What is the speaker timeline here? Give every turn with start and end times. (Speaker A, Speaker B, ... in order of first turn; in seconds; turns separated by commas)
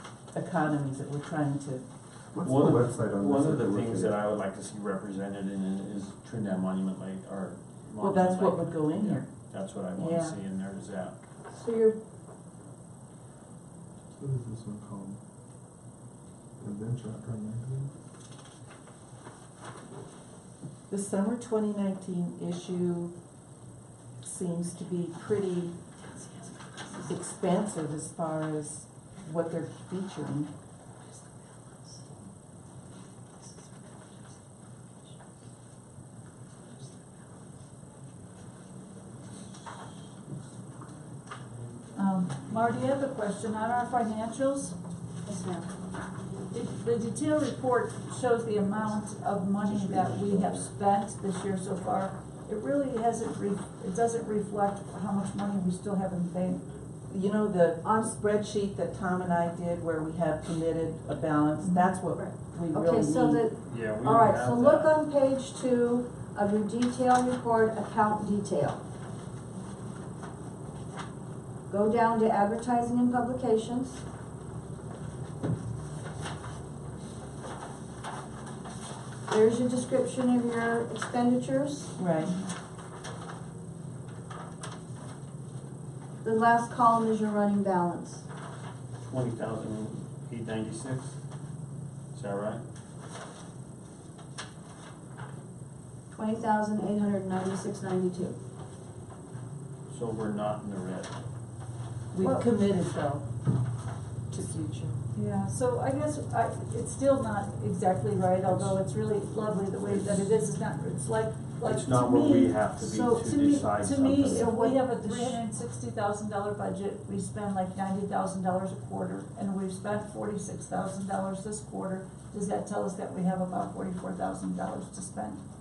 Speaker A: 0.3-1.9, Speaker B: 2.3-4.2, Speaker C: 2.4-11.2, Speaker A: 8.0-10.4, Speaker D: 11.6-11.9, Speaker B: 14.2-15.2, Speaker B: 16.6-17.9, Speaker A: 20.9-23.1, Speaker A: 24.2-25.8, Speaker D: 26.2-26.5, Speaker A: 26.9-30.5, Speaker D: 31.0-32.1, Speaker D: 33.4-34.4, Speaker D: 36.6-37.0, Speaker E: 41.9-44.8, Speaker D: 45.2-45.8, Speaker E: 46.5-56.7, Speaker A: 57.1-63.4, Speaker D: 57.8-58.1, Speaker E: 61.6-61.9, Speaker D: 62.1-68.8, Speaker C: 63.6-65.0, Speaker D: 71.7-74.0, Speaker D: 79.3-82.0, Speaker A: 82.0-82.3, Speaker D: 86.2-88.3, Speaker C: 89.0-91.2, Speaker C: 92.1-92.6, Speaker D: 96.1-98.4, Speaker C: 99.9-101.2, Speaker A: 102.1-103.3, Speaker E: 102.2-102.5, Speaker A: 104.3-105.0, Speaker E: 105.1-112.6, Speaker C: 111.6-114.5, Speaker D: 112.7-115.4, Speaker E: 113.7-125.4